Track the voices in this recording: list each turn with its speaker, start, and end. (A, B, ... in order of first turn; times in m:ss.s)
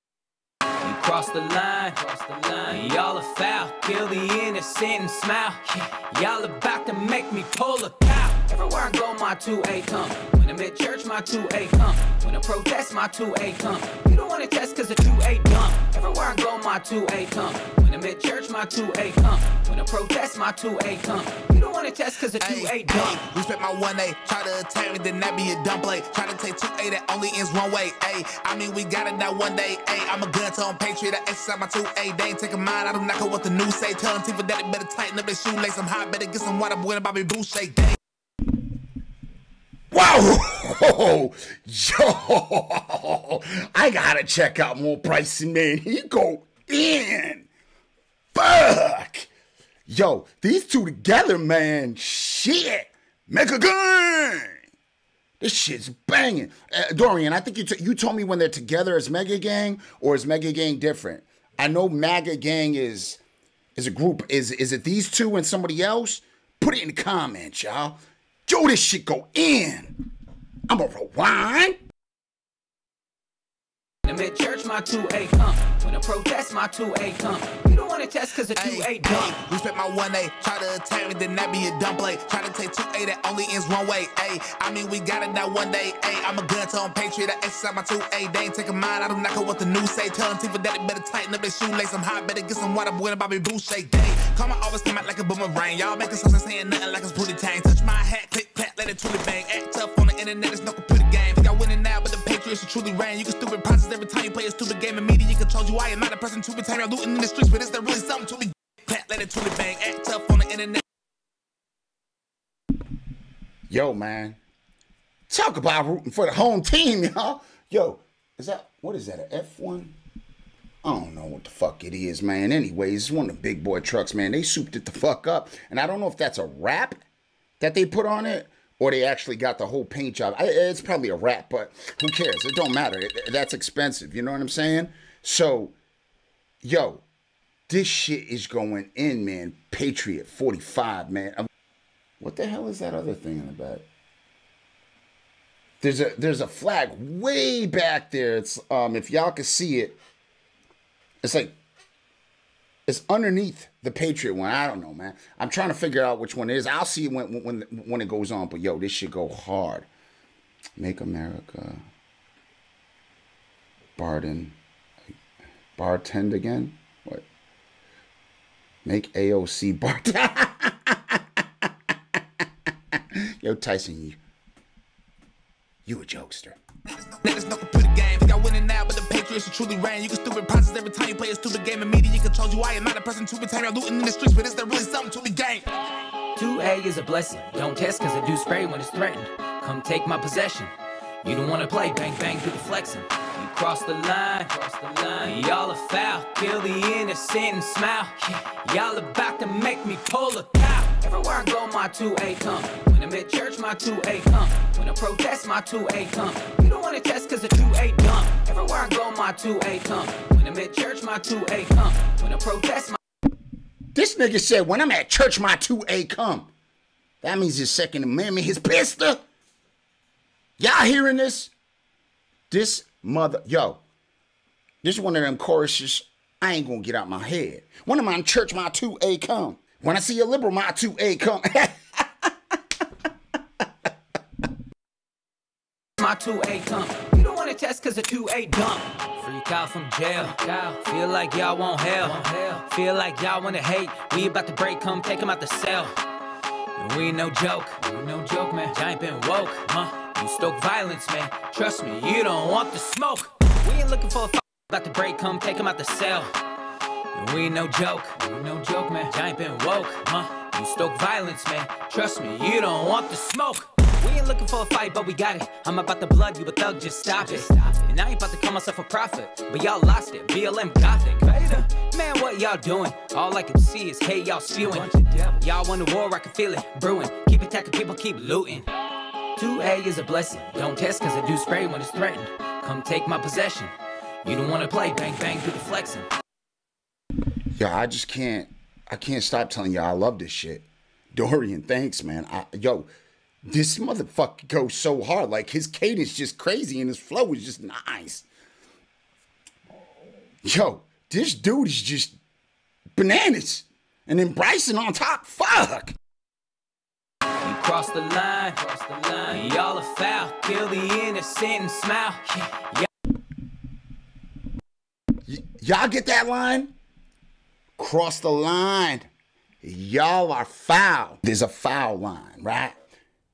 0:00.8-0:23.2 A
0:22.4-0:38.0 B
0:39.9-0:47.5 C
0:48.3-0:49.3 C
0:49.9-0:54.6 C
0:55.4-1:03.2 C
1:03.8-1:10.0 C
1:10.7-1:11.8 C
1:14.0-1:19.3 A
1:18.6-1:50.8 B
1:53.7-1:54.4 C
1:55.3-2:00.0 C
2:00.8-2:07.0 C
2:07.6-2:15.8 C
2:16.6-2:17.0 C
2:17.7-2:21.5 C
2:22.2-2:23.9 C
2:25.8-2:30.0 C
2:31.2-2:31.6 C
2:32.9-2:39.9 C
2:40.8-2:41.8 C
2:44.0-2:44.6 C
2:45.8-2:47.3 C
2:48.8-2:54.2 C
2:55.9-2:56.6 C
2:57.1-3:05.7 B
3:06.4-3:10.7 A
3:11.2-3:33.0 A
3:33.9-3:36.5 C
3:37.2-3:39.2 C
3:40.6-3:41.5 C
3:42.5-3:43.8 C
3:44.8-3:52.6 C
3:56.0-4:06.0 A
4:06.8-4:16.3 A
4:17.1-4:38.7 A
4:39.4-4:43.7 A
4:44.2-4:46.1 A
4:47.6-4:52.9 C
4:53.5-4:58.3 C
5:00.4-5:02.2 C
5:03.0-5:06.0 C
5:07.4-5:12.9 A
5:15.3-5:16.7 C
5:17.8-5:19.1 C
5:19.6-5:22.8 C